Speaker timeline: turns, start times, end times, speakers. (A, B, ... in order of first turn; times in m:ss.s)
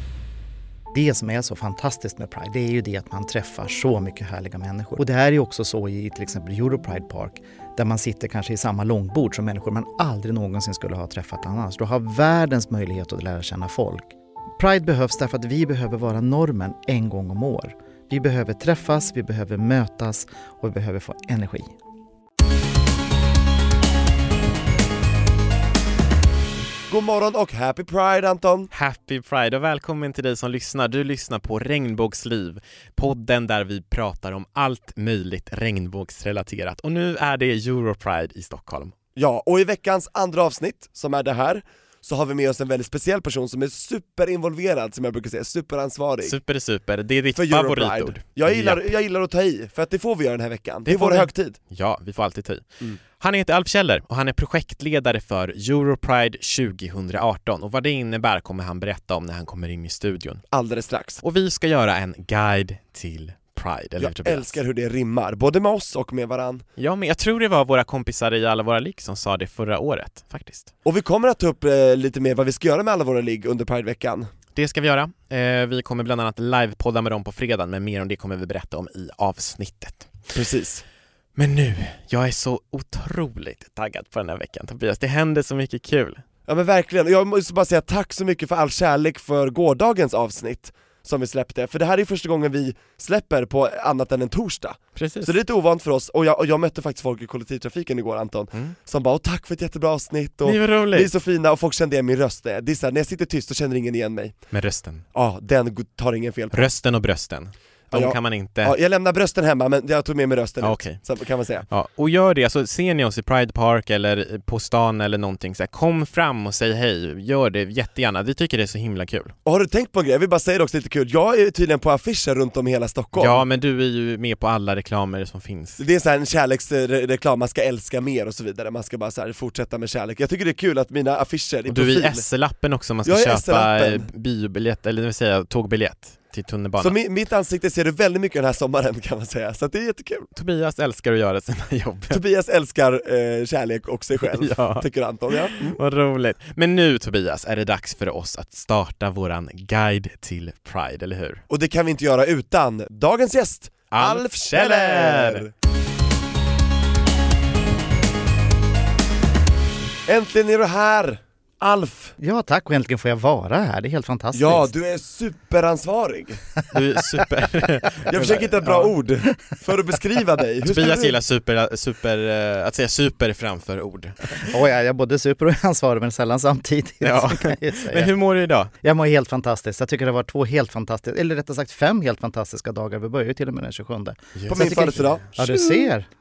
0:00.9-0:21.8 A
0:26.9-0:28.7 B
0:28.7-0:38.9 C
0:39.2-0:46.4 B
0:46.2-0:48.8 C
0:47.3-0:51.6 B
0:50.8-1:00.4 C
1:00.5-1:01.2 B
1:01.2-1:04.6 C
1:04.0-1:06.6 B
1:06.8-1:10.7 C
1:10.8-1:14.3 B
1:14.5-1:20.2 C
1:20.3-1:20.8 B
1:21.4-1:26.2 C
1:26.5-1:44.4 B
1:34.9-1:35.3 C
1:40.4-1:41.1 C
1:44.5-1:45.0 C
1:45.1-1:46.7 B
1:46.5-1:48.7 C
1:47.9-1:51.7 B
1:50.6-1:51.0 C
1:51.7-1:59.3 C
1:59.4-2:03.4 B
2:03.1-2:05.8 C
2:05.8-2:12.2 B
2:11.7-2:17.0 C
2:13.0-2:14.1 B
2:16.8-2:20.3 B
2:20.3-2:22.2 C
2:22.1-2:25.8 B
2:24.2-2:24.8 C
2:25.4-2:31.4 C
2:31.5-2:35.5 B
2:33.9-2:35.4 C
2:40.0-2:42.1 B
2:42.2-2:44.7 A
2:44.3-2:46.4 B
2:46.7-2:48.9 C
2:48.1-2:51.2 B
2:50.6-2:54.5 C
2:54.4-2:58.1 A
2:57.0-2:58.7 C
2:58.8-3:06.1 A
3:04.3-3:05.2 C
3:04.5-3:05.7 B